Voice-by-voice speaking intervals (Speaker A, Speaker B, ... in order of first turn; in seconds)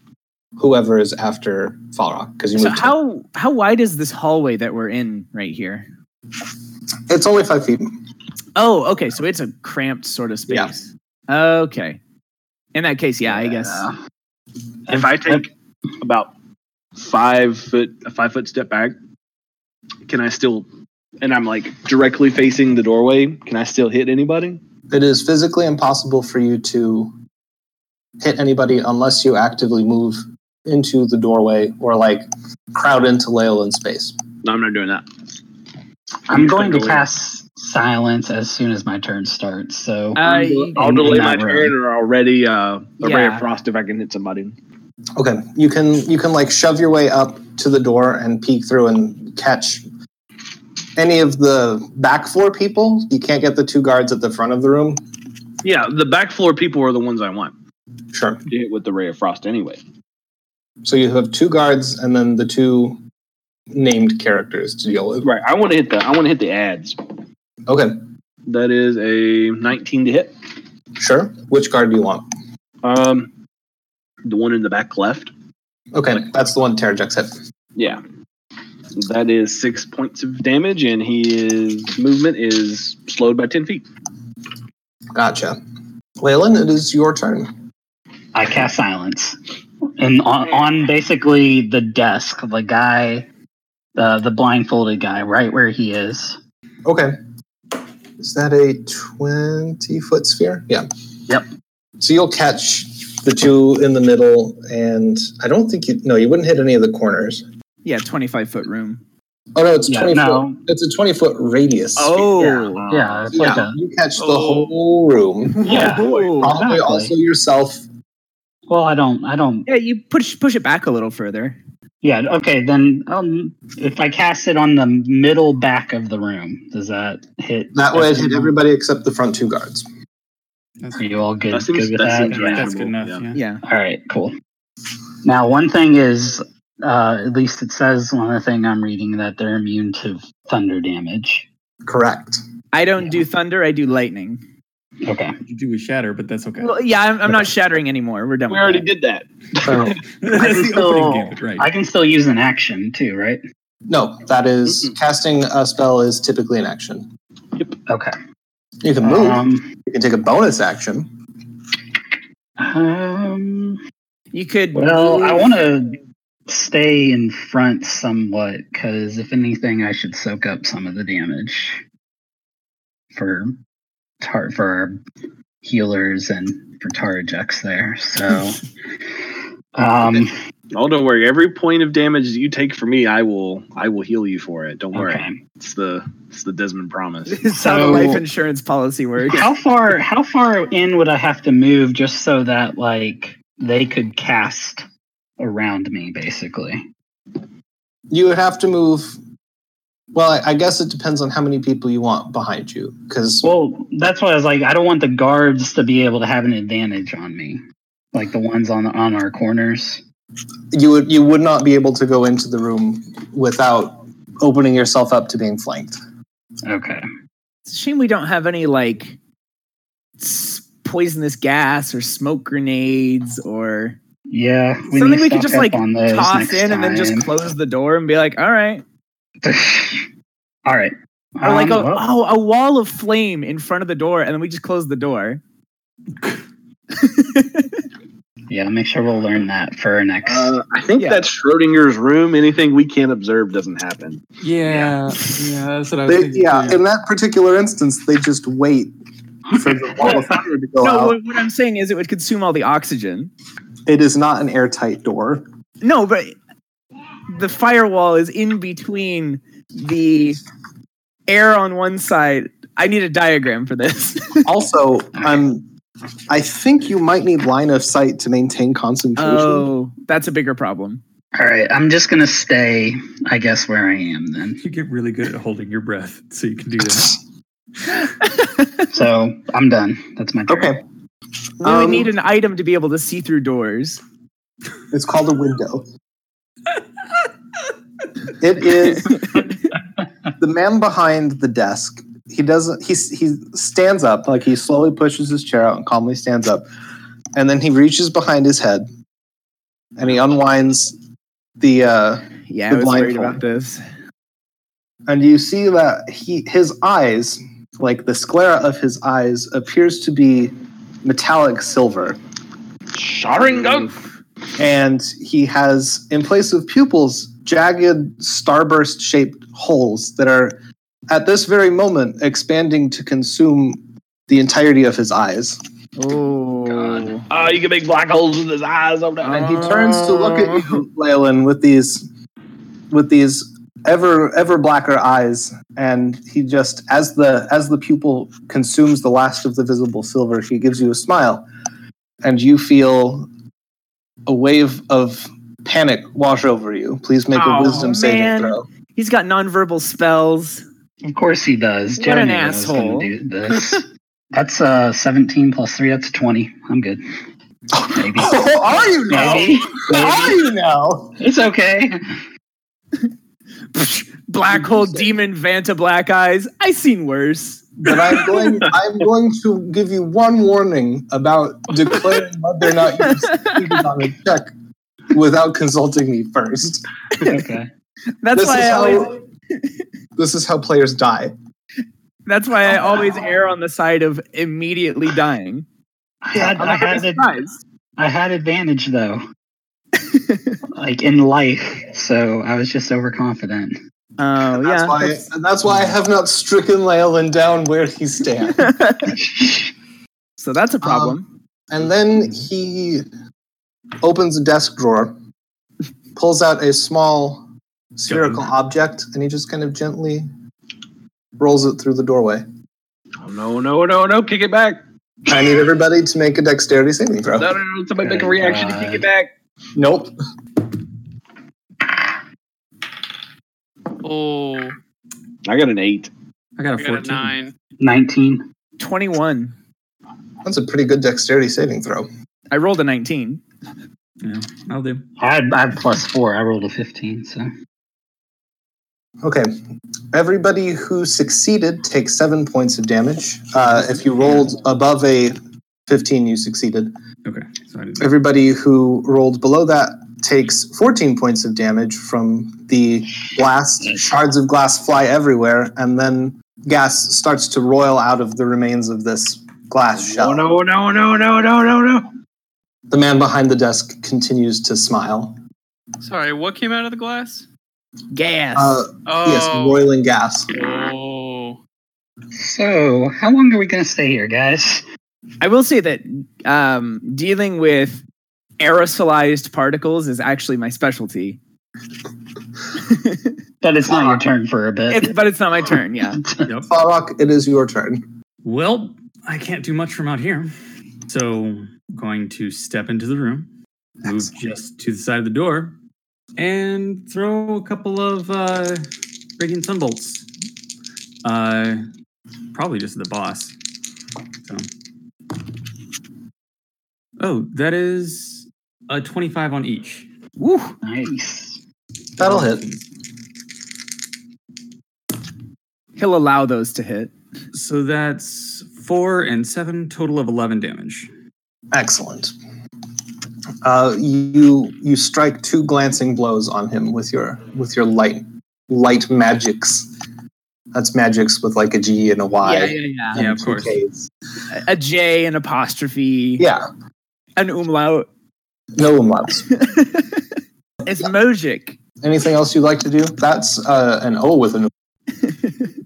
Speaker A: 0.6-3.0, 7.1-7.9, 24.9-27.1, 28.2-34.1, 45.2-49.8, 51.0-55.0, 58.1-58.4, 60.8-63.0, 63.7-65.3, 67.7-68.0, 71.0-72.3, 75.9-77.3, 85.2-85.6, 86.2-87.5, 96.8-97.2, 98.2-100.9, 102.0-107.4, 109.5-112.2, 113.3-115.8, 116.4-117.8, 127.7-129.8, 141.8-142.4, 153.9-157.1, 158.8-161.1, 198.1-199.2, 200.1-203.4, 210.7-216.0, 246.1-248.9, 249.5-251.2, 253.9-255.4, 264.4-265.7, 266.3-269.7, 280.5-280.8, 281.6-282.1, 284.9-285.9, 288.4-289.5, 290.4-296.7, 297.4-298.9, 300.0-300.9, 301.6-303.4, 305.1-312.2, 314.6-320.6, 321.1-325.6, 329.3-332.1, 332.9-341.5, 342.2-343.3, 344.3-348.7, 357.7-361.1, 367.8-374.5, 375.1-376.8, 378.4-379.2, 380.2-381.3, 386.4-386.7, 394.5-398.8, 400.8-401.2, 401.7-403.1, 404.0-405.2, 406.2-410.3, 411.4-412.4, 415.3-417.6, 419.8-420.1, 430.4-432.1, 439.2-439.5, 440.1-445.4, 445.9-446.9, 448.0-460.5, 462.9-465.4, 468.6-470.5, 486.7-488.0, 512.2-512.6, 521.7-522.3, 523.6-529.9, 530.7-534.1, 536.4-536.6, 538.8-539.5, 542.0-544.7
Speaker B: 2.6-5.9, 8.6-12.0, 12.7-13.9, 40.2-40.8, 43.0-43.4, 107.8-109.0, 112.0-112.8, 115.6-116.6, 119.7-121.6, 133.3-133.6, 142.7-144.4, 146.6-148.8, 164.3-165.5, 187.3-189.5, 217.7-219.2, 220.2-224.0, 224.9-228.8, 231.4-235.4, 237.0-237.7, 250.8-253.3, 255.8-256.4, 257.3-260.4, 261.3-264.5, 269.2-271.0, 281.6-284.0, 289.1-289.5, 302.5-303.8, 326.0-327.3, 329.2-330.8, 347.3-350.6, 352.0-353.1, 363.7-367.7, 373.2-373.6, 378.2-379.1, 382.3-385.7, 386.6-387.6, 390.0-390.6, 394.2-395.2, 398.6-399.1, 400.4-401.3, 428.8-429.5, 432.5-433.4, 468.1-468.8, 475.4-478.0, 478.6-481.4, 482.9-483.3, 484.9-486.2, 510.4-510.8, 516.0-517.1, 532.4-533.2, 534.5-536.5, 537.4-538.1, 539.5-540.2, 540.9-541.8, 545.3-545.6
Speaker C: 13.6-13.8, 14.9-16.3, 17.0-19.0, 20.1-20.7, 21.2-24.6, 34.4-35.1, 36.3-37.1, 40.2-44.6, 55.6-57.5, 58.5-59.8, 65.2-67.2, 68.5-70.3, 72.8-73.3, 74.2-75.3, 77.8-78.0, 78.9-83.8, 112.4-113.4, 115.7-116.3, 131.5-133.3, 148.5-149.8, 180.7-187.5, 240.2-244.9, 312.9-314.0, 327.3-329.9, 413.2-414.8, 417.4-419.3, 425.4-426.1, 459.9-462.1
Speaker D: 14.9-15.4, 36.3-40.2, 40.8-41.8, 88.3-93.3, 94.0-96.4, 109.9-110.6, 112.4-113.8, 115.7-117.1, 118.7-119.7, 122.0-128.6, 131.0-132.7, 133.6-134.3, 135.2-141.5, 145.0-145.3, 149.6-153.4, 157.9-158.2, 159.0-159.7, 162.6-163.8, 164.7-171.8, 173.1-173.6, 174.2-175.0, 175.6-178.6, 179.8-180.3, 184.9-185.4, 187.6-188.2, 189.3-194.8, 195.4-196.8, 203.4-207.6, 208.1-210.0, 216.7-217.0, 224.3-227.3, 229.4-230.1, 230.7-232.1, 238.5-240.6, 265.2-265.4, 271.4-274.6, 278.9-280.8, 326.7-327.1, 351.0-357.0, 357.9-358.6, 359.1-360.4, 361.2-362.2, 377.2-377.7, 386.2-387.3, 388.0-389.2, 390.7-393.8, 399.1-399.7, 418.0-419.1, 427.8-428.4, 435.2-437.5, 472.4-474.9, 483.6-485.2, 486.1-486.5, 510.8-511.6
Speaker E: 114.3-114.7, 424.0-424.8, 426.8-427.5, 466.0-467.5, 469.1-469.9, 470.5-471.6
Speaker F: 130.8-131.1, 132.3-133.4, 145.5-146.8, 150.2-151.7, 244.4-246.8, 274.6-277.2, 408.1-408.5, 426.6-427.4, 434.2-435.0, 447.2-448.1, 486.5-486.7, 488.4-490.5, 491.1-493.5, 494.0-495.8, 496.4-498.9, 499.4-500.3, 501.2-501.8, 502.5-503.5, 507.2-510.1, 512.2-512.7, 517.5-521.1, 533.2-533.8